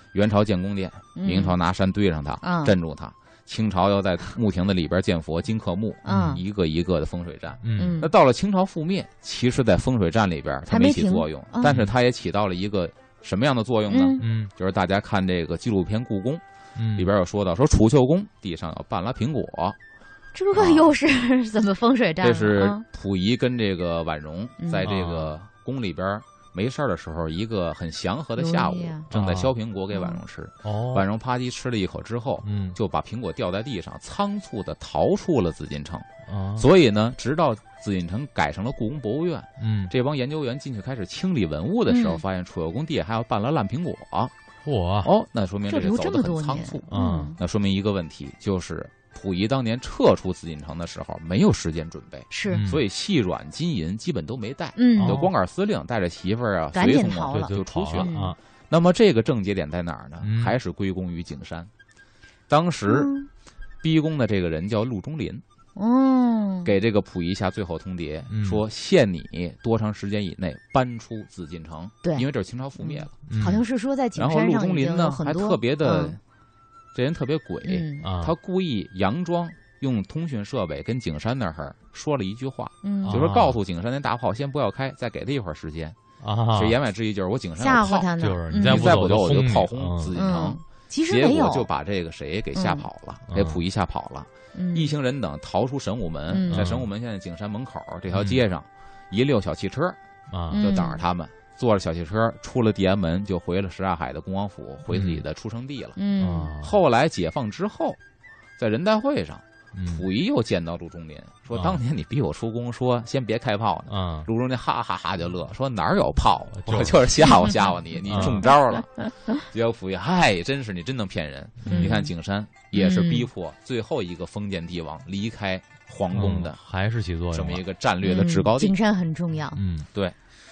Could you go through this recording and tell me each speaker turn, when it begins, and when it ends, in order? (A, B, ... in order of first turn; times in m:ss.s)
0:00.1-0:16.4 A
0:01.2-0:01.6 B
0:02.4-0:02.7 B
0:06.0-0:06.4 B
0:06.0-0:06.4 C
0:07.6-0:08.0 C
0:07.8-0:08.1 B
0:10.7-0:11.8 B
0:11.7-0:11.9 C
0:13.9-0:14.2 B
0:14.2-0:14.5 C
0:16.8-0:17.1 C
0:16.9-0:19.8 A
0:20.3-0:22.8 B
0:20.6-0:20.9 A
0:22.2-0:44.3 A
0:24.6-0:24.9 B
0:24.8-0:25.3 C
0:28.4-0:29.0 B
0:29.1-0:29.5 C
0:29.9-0:30.2 B
0:30.6-0:31.1 C
0:32.4-0:32.8 C
0:36.3-0:36.7 C
0:39.6-0:39.9 C
0:41.9-0:42.2 B
0:44.6-0:45.1 C
0:45.0-0:58.1 A
0:45.7-0:47.4 B
0:46.9-0:47.4 C
0:52.3-0:52.7 B
0:52.5-0:52.8 C
0:54.8-0:55.2 B
0:55.0-0:55.3 C
0:56.7-0:58.4 B
0:57.3-0:58.4 C
0:58.7-1:01.7 A
1:00.2-1:00.6 C
1:02.5-1:03.1 A
1:02.9-1:03.3 B
1:03.8-1:05.4 A
1:05.8-1:06.7 B
1:06.6-1:13.1 A
1:08.3-1:08.6 C
1:12.8-1:16.2 B
1:13.3-1:13.6 C
1:14.2-1:16.2 A
1:16.9-1:26.0 A
1:17.6-1:18.1 B
1:18.0-1:18.4 C
1:22.8-1:23.2 B
1:23.0-1:23.6 C
1:26.2-1:26.8 C
1:26.5-1:40.0 A
1:27.6-1:29.0 B
1:28.2-1:30.1 C
1:30.2-1:31.7 B
1:32.6-1:32.8 B
1:33.3-1:33.6 C
1:34.5-1:34.9 B
1:36.3-1:36.8 B
1:36.5-1:36.9 C
1:38.1-1:38.4 C
1:40.3-1:40.7 C
1:40.5-1:41.0 B
1:40.5-1:46.0 A
1:44.9-1:45.2 C
1:46.0-1:46.5 B
1:46.2-1:46.8 C
1:46.6-1:48.0 A
1:48.6-2:06.6 A
1:49.7-1:50.0 C
1:51.5-1:51.8 C
1:53.9-1:54.3 C
1:56.5-1:58.5 C
2:01.6-2:02.1 C
2:01.7-2:02.1 B
2:02.7-2:03.3 B
2:06.1-2:07.6 C
2:07.3-2:08.8 A
2:08.0-2:09.6 B
2:09.5-2:09.9 C